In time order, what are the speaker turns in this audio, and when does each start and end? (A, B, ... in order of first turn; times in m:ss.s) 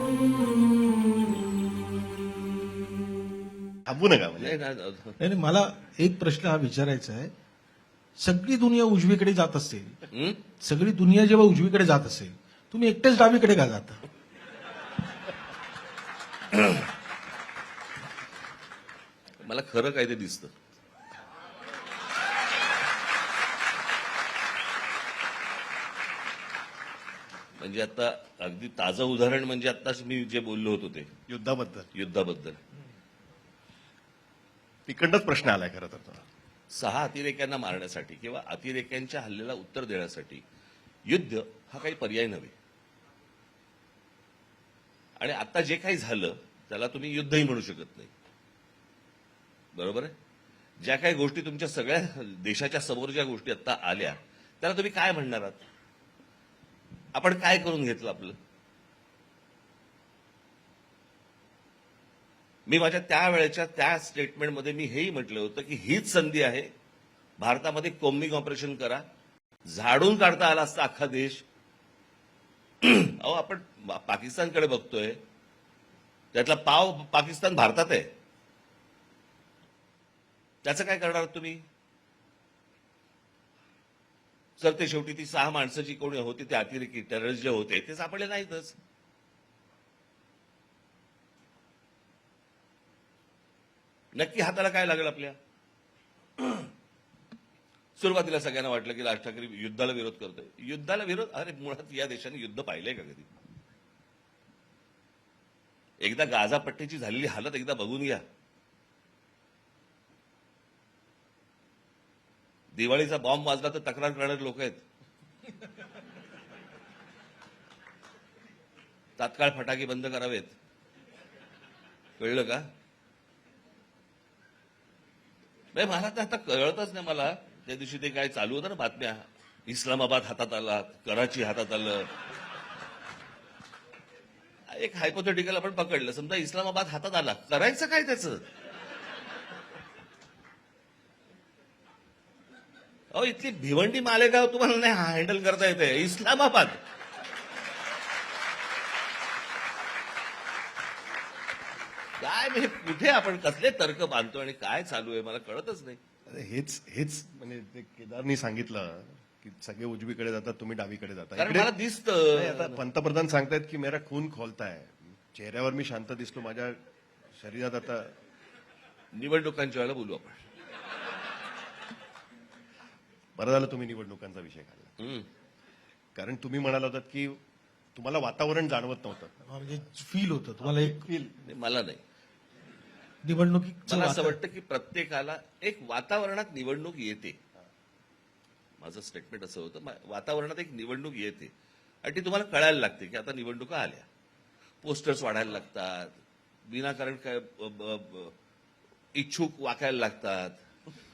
0:03.9-0:04.5 A
0:04.4-0:05.2 B
0:05.2-0:07.3 C
0:08.2-0:10.0 C
0:10.1-0:10.4 B
0:10.6-0:14.0 C
0:19.4-0:20.5 B
0:27.6-0:31.1 B
0:31.3-0:31.9 A
0:31.9-0:32.6 B
0:34.9-0:36.2 A
0:36.7-0:40.4 B
0:41.1-0:42.5 B
0:45.2-0:48.1 B
0:49.7-0:50.1 B
0:50.8-0:55.6 B
0:57.1-0:58.4 B
1:02.6-1:06.7 B
1:07.4-1:09.0 B
1:09.6-1:11.4 B
1:12.8-1:15.2 B
1:16.3-1:18.1 B
1:20.6-1:21.6 B
1:24.6-1:28.8 B
1:34.1-1:35.4 B
1:36.4-1:36.6 B
1:38.0-1:43.3 B
1:46.0-1:48.2 B
1:52.7-1:54.8 B
1:59.2-2:00.5 B
2:02.2-2:02.6 B
2:05.7-2:12.1 B
2:14.7-2:18.4 B
2:23.1-2:26.8 B
2:32.2-2:36.0 B
2:36.3-2:41.7 A
2:41.4-2:42.8 B
2:42.3-2:46.8 A
2:47.3-2:48.1 A
2:49.1-2:50.4 B
2:53.4-2:54.9 A
2:55.0-2:55.3 B
2:56.1-2:57.4 A
2:57.9-2:59.4 A
2:59.5-3:01.1 C
3:00.6-3:01.4 A
3:01.4-3:02.0 B
3:03.2-3:04.4 C
3:03.8-3:07.4 B
3:08.8-3:11.5 B
3:12.0-3:14.0 B
3:14.8-3:18.3 B
3:19.1-3:20.6 B